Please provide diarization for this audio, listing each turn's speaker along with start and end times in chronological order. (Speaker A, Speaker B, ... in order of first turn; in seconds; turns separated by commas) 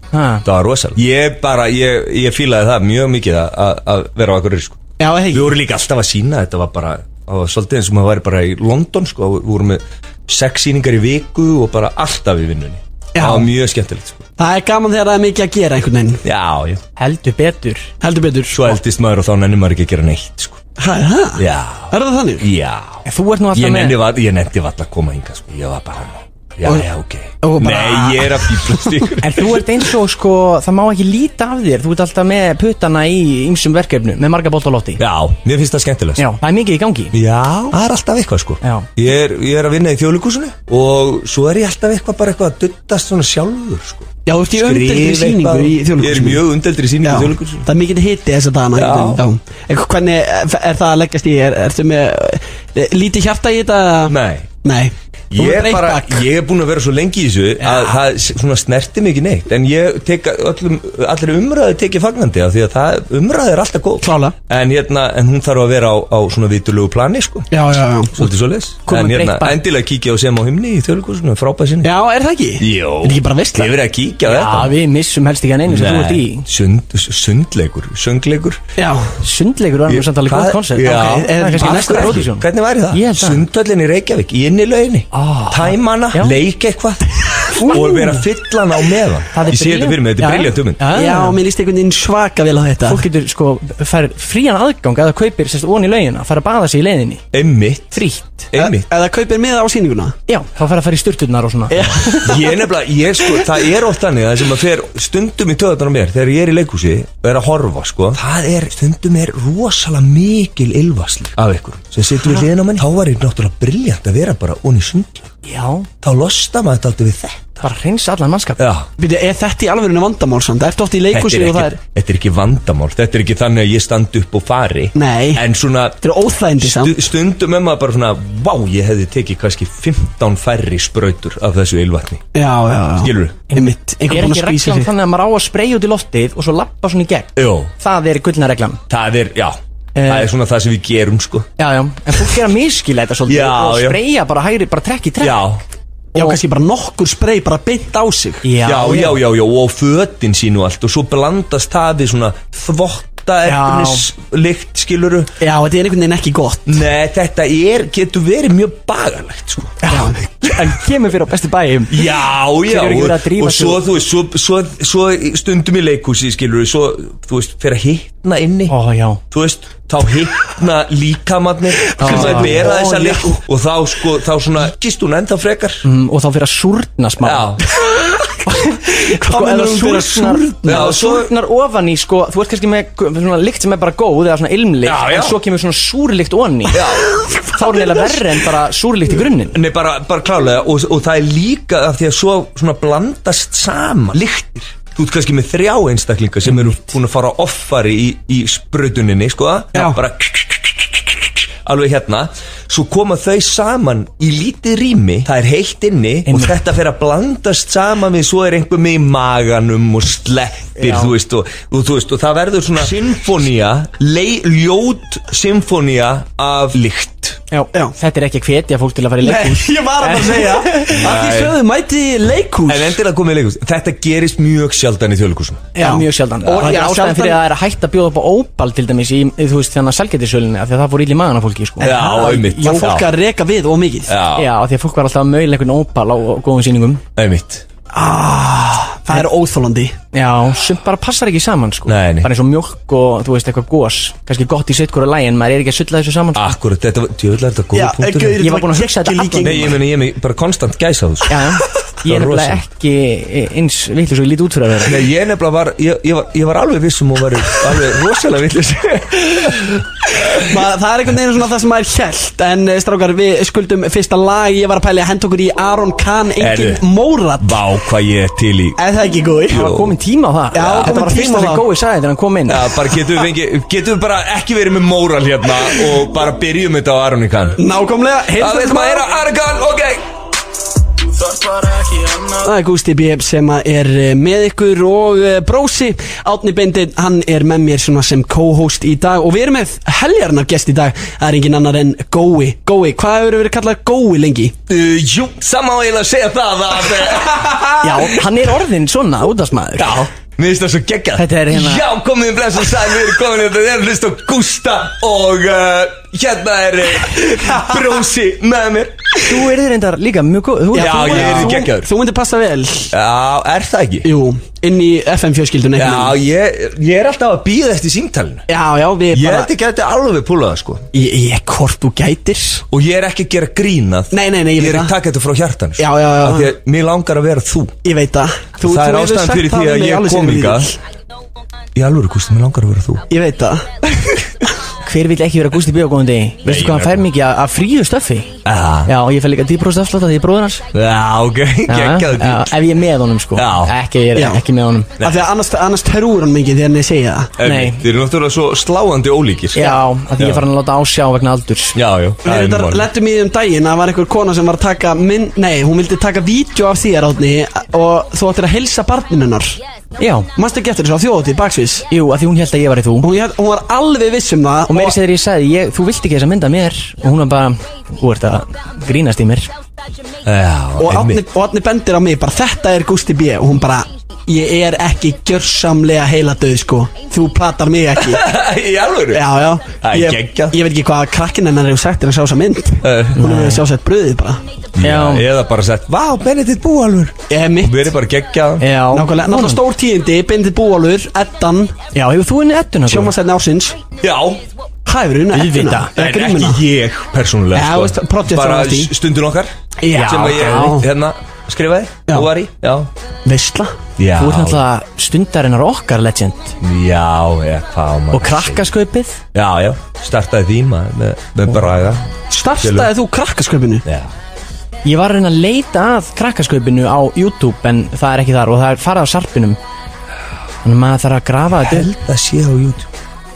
Speaker A: 0.1-0.5, Speaker B: 0.4-14.2, Speaker C: 5.0-5.5, Speaker C: 13.1-13.5, Speaker C: 14.4-16.2, Speaker B: 16.2-16.8, Speaker A: 17.0-17.9, Speaker C: 18.0-18.7, Speaker B: 18.5-20.6, Speaker C: 20.8-22.5, Speaker B: 21.4-29.7, Speaker A: 23.0-24.0, Speaker C: 27.4-29.1, Speaker A: 29.2-35.0, Speaker B: 35.0-36.3, Speaker A: 36.2-37.2, Speaker B: 37.1-47.7, Speaker A: 38.6-38.9, Speaker C: 44.2-46.4, Speaker C: 47.0-56.2, Speaker B: 48.7-49.2, Speaker B: 54.1-54.5, Speaker B: 55.3-67.5, Speaker C: 57.6-58.0, Speaker C: 64.0-64.3, Speaker C: 67.5-68.2, Speaker B: 68.1-71.9, Speaker A: 68.8-69.6, Speaker C: 71.8-73.7, Speaker B: 72.6-74.7, Speaker A: 74.2-76.5, Speaker B: 75.7-78.6, Speaker C: 78.8-79.1, Speaker A: 79.2-83.5, Speaker B: 79.9-90.9, Speaker C: 80.8-82.2, Speaker A: 85.1-86.4, Speaker A: 87.5-88.2, Speaker C: 87.7-88.0, Speaker A: 89.3-91.4, Speaker C: 90.9-93.0, Speaker A: 92.9-97.2, Speaker B: 97.3-98.9, Speaker A: 97.9-98.5, Speaker C: 98.5-100.1, Speaker A: 100.3-102.2, Speaker C: 101.7-102.7, Speaker B: 102.0-115.3, Speaker A: 115.4-115.9, Speaker B: 116.0-117.7, Speaker A: 117.6-118.6, Speaker B: 118.6-118.9, Speaker C: 119.0-121.8, Speaker B: 121.1-126.0, Speaker C: 125.0-125.4, Speaker C: 126.0-127.0, Speaker B: 126.6-132.2, Speaker C: 132.3-134.9, Speaker B: 133.0-133.4, Speaker A: 133.5-138.8, Speaker B: 137.3-137.7, Speaker B: 138.9-141.5, Speaker A: 139.9-140.3, Speaker A: 141.6-145.4, Speaker B: 143.3-144.0, Speaker B: 145.2-145.6, Speaker C: 146.1-148.5, Speaker A: 148.4-149.2, Speaker B: 148.6-155.3, Speaker A: 153.4-154.0, Speaker C: 155.4-156.8, Speaker B: 156.7-159.9, Speaker A: 159.8-162.1, Speaker C: 159.9-160.2, Speaker B: 161.9-168.8, Speaker A: 162.6-163.8, Speaker A: 168.7-169.2, Speaker B: 169.3-175.8, Speaker A: 172.0-173.3, Speaker C: 172.0-173.1, Speaker A: 175.8-177.8, Speaker B: 177.2-177.7, Speaker A: 178.4-186.8, Speaker C: 178.9-181.0, Speaker B: 180.6-181.3, Speaker B: 184.8-185.4, Speaker B: 186.7-187.4, Speaker C: 186.8-188.3, Speaker A: 187.5-189.6, Speaker B: 189.5-217.4, Speaker A: 206.2-206.6, Speaker A: 210.8-211.1, Speaker A: 217.5-221.0, Speaker C: 219.2-223.0, Speaker B: 220.9-221.6, Speaker B: 222.7-225.7, Speaker C: 225.8-227.4, Speaker A: 225.8-232.9, Speaker B: 231.8-233.1, Speaker C: 231.8-234.2, Speaker B: 234.1-234.5, Speaker A: 234.3-237.0, Speaker B: 237.2-237.6, Speaker C: 237.9-239.9, Speaker A: 240.1-246.5, Speaker B: 241.9-242.3, Speaker B: 246.3-248.4, Speaker C: 247.7-249.8, Speaker A: 248.4-249.8, Speaker B: 249.4-252.6, Speaker A: 251.3-255.0, Speaker B: 254.8-260.6, Speaker C: 260.2-267.6, Speaker B: 266.4-266.8, Speaker B: 267.4-268.8, Speaker C: 268.8-269.7, Speaker B: 269.5-269.9, Speaker A: 269.5-272.7, Speaker C: 270.5-271.6, Speaker B: 270.6-270.9, Speaker B: 272.5-277.6, Speaker C: 277.6-279.1, Speaker B: 278.3-280.0, Speaker C: 282.1-294.6, Speaker B: 294.7-298.3, Speaker A: 297.8-300.0, Speaker B: 299.8-309.5, Speaker A: 301.1-301.8, Speaker A: 309.2-311.7, Speaker C: 310.7-312.9, Speaker B: 310.8-311.9, Speaker B: 312.9-314.1, Speaker C: 314.0-316.2, Speaker B: 315.8-318.5, Speaker C: 318.5-319.5, Speaker B: 319.1-320.9, Speaker C: 320.9-322.6, Speaker B: 322.7-327.7, Speaker C: 324.1-324.9, Speaker C: 325.8-326.5, Speaker C: 327.8-330.8, Speaker B: 328.6-330.7, Speaker B: 331.7-333.1, Speaker C: 333.1-334.1, Speaker A: 334.8-340.6, Speaker B: 336.4-337.0, Speaker B: 338.4-338.9, Speaker B: 340.7-342.7, Speaker A: 341.7-344.9, Speaker B: 343.3-343.8, Speaker C: 344.1-344.4, Speaker B: 345.0-345.2, Speaker C: 345.0-347.4, Speaker B: 347.4-350.5, Speaker A: 347.4-347.8, Speaker A: 349.5-351.8, Speaker B: 351.7-352.9, Speaker C: 352.2-359.6, Speaker A: 360.0-360.3, Speaker C: 360.3-361.9, Speaker A: 361.9-363.1, Speaker C: 363.0-365.0, Speaker A: 364.7-369.5, Speaker B: 370.2-371.2, Speaker C: 370.8-378.2, Speaker B: 378.0-379.3, Speaker C: 379.1-384.4, Speaker B: 379.8-380.6, Speaker B: 382.8-383.2, Speaker A: 383.1-383.6, Speaker B: 384.7-388.7, Speaker A: 384.8-385.3, Speaker C: 387.3-387.9, Speaker A: 388.6-389.6, Speaker C: 388.9-391.8, Speaker A: 391.9-393.1, Speaker C: 392.9-393.8, Speaker B: 394.0-394.4, Speaker C: 394.9-396.6, Speaker A: 395.3-395.9, Speaker B: 395.9-402.9, Speaker C: 397.5-398.9, Speaker C: 399.8-400.9, Speaker A: 399.9-400.8, Speaker C: 403.2-403.8, Speaker B: 404.0-404.6, Speaker A: 404.2-406.6, Speaker B: 406.6-408.7, Speaker A: 408.1-409.2, Speaker B: 409.3-412.1, Speaker C: 412.3-413.8, Speaker B: 412.6-412.9, Speaker B: 413.8-414.1, Speaker A: 414.8-419.6, Speaker A: 420.6-421.9, Speaker B: 421.6-422.9